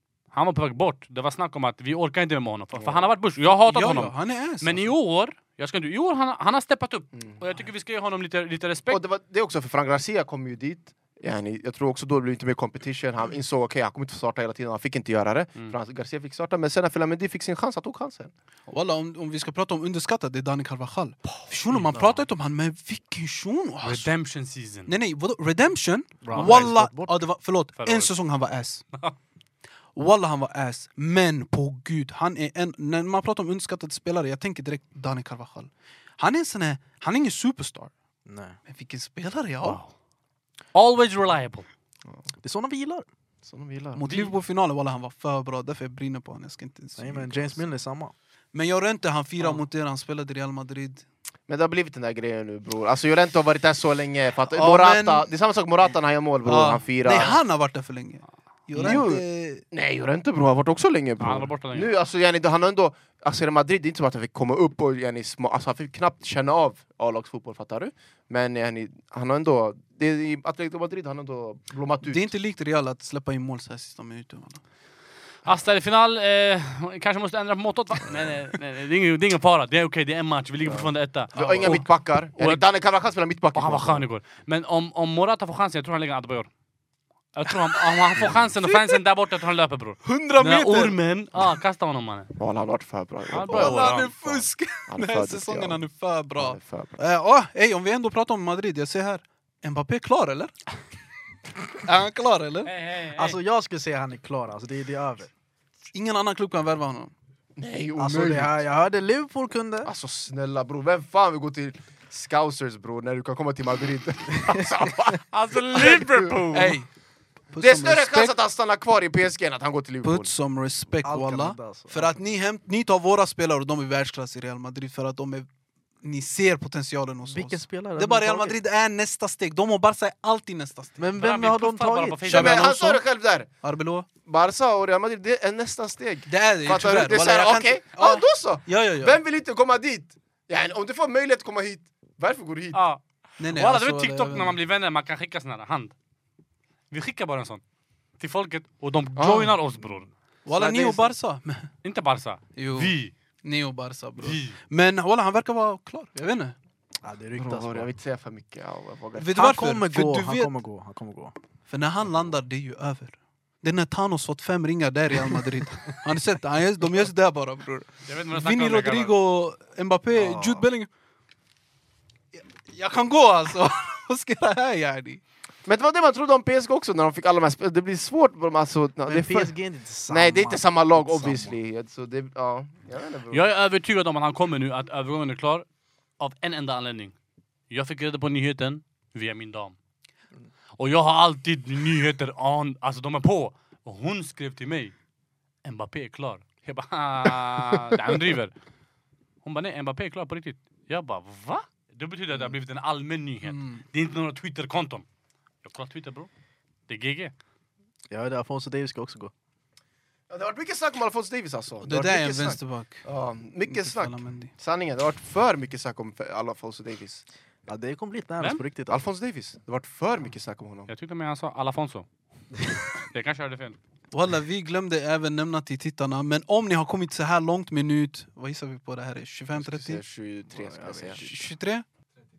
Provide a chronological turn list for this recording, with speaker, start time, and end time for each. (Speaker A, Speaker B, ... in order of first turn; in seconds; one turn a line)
Speaker A: 0.3-9.0
Speaker B: 2.7-3.1
Speaker C: 3.6-4.9
Speaker B: 8.9-18.3
Speaker C: 18.7-24.1
Speaker A: 23.8-24.9
Speaker C: 24.9-28.8
Speaker D: 26.2-27.2
Speaker A: 26.3-26.7
Speaker A: 27.8-28.1
Speaker C: 29.9-37.9
Speaker D: 38.2-38.6
Speaker C: 38.6-39.8
Speaker A: 39.6-39.9
Speaker A: 40.7-41.7
Speaker D: 42.4-43.0
Speaker B: 43.4-44.0
Speaker C: 43.9-47.6
Speaker A: 44.0-44.3
Speaker D: 47.0-48.1
Speaker C: 48.5-51.0
Speaker B: 51.5-57.4
Speaker C: 54.5-55.3
Speaker C: 56.4-59.6
Speaker B: 58.8-72.3
Speaker A: 61.2-61.9
Speaker C: 72.0-74.6
Speaker A: 75.5-82.6
Speaker B: 80.6-84.0
Speaker C: 81.4-81.8
Speaker A: 83.5-86.5
Speaker A: 87.3-92.3
Speaker C: 87.5-88.0
Speaker C: 88.6-89.0
Speaker C: 90.0-91.0
Speaker B: 92.3-95.8
Speaker A: 93.3-94.1
Speaker C: 93.5-100.5
Speaker B: 96.4-97.0
Speaker C: 101.7-102.7
Speaker A: 102.7-103.4
Speaker D: 103.1-105.3
Speaker C: 105.9-107.1
Speaker B: 107.6-108.6
Speaker D: 108.0-109.9
Speaker B: 109.8-116.7
Speaker A: 115.3-116.8
Speaker C: 116.5-116.9
Speaker C: 117.5-118.3
Speaker B: 117.6-120.3
Speaker C: 120.0-125.5
Speaker D: 121.0-122.2
Speaker C: 126.0-131.1
Speaker D: 127.3-128.6
Speaker D: 131.0-132.3
Speaker A: 131.2-132.8
Speaker C: 132.3-133.0
Speaker B: 132.3-133.5
Speaker C: 133.6-134.1
Speaker B: 134.2-142.8
Speaker C: 136.3-139.2
Speaker A: 142.7-145.9
Speaker C: 143.4-144.6
Speaker A: 146.9-147.6
Speaker A: 148.2-150.1
Speaker B: 149.2-149.6
Speaker C: 150.4-151.7
Speaker B: 150.5-150.9
Speaker A: 151.8-153.1
Speaker C: 152.5-156.6
Speaker A: 154.2-154.6
Speaker D: 157.0-157.9
Speaker B: 157.3-159.4
Speaker C: 159.2-160.5
Speaker D: 159.3-161.3
Speaker C: 161.7-170.9
Speaker A: 168.1-169.1
Speaker D: 170.2-170.6
Speaker C: 172.3-175.2
Speaker B: 175.6-179.5
Speaker D: 179.1-181.6
Speaker B: 180.1-183.5
Speaker A: 183.3-185.6
Speaker A: 186.2-187.1
Speaker A: 187.7-189.8
Speaker A: 190.8-194.9
Speaker A: 195.6-198.5
Speaker A: 199.4-205.0
Speaker C: 203.4-203.8
Speaker A: 205.6-206.3
Speaker A: 206.9-207.3
Speaker D: 208.1-209.3
Speaker B: 210.3-217.2
Speaker C: 211.8-213.0
Speaker C: 213.7-214.5
Speaker D: 217.7-219.0
Speaker B: 218.9-220.9
Speaker A: 220.9-222.1
Speaker A: 222.9-223.8
Speaker C: 224.1-230.0
Speaker B: 229.5-231.3
Speaker D: 230.5-231.3
Speaker C: 231.2-231.8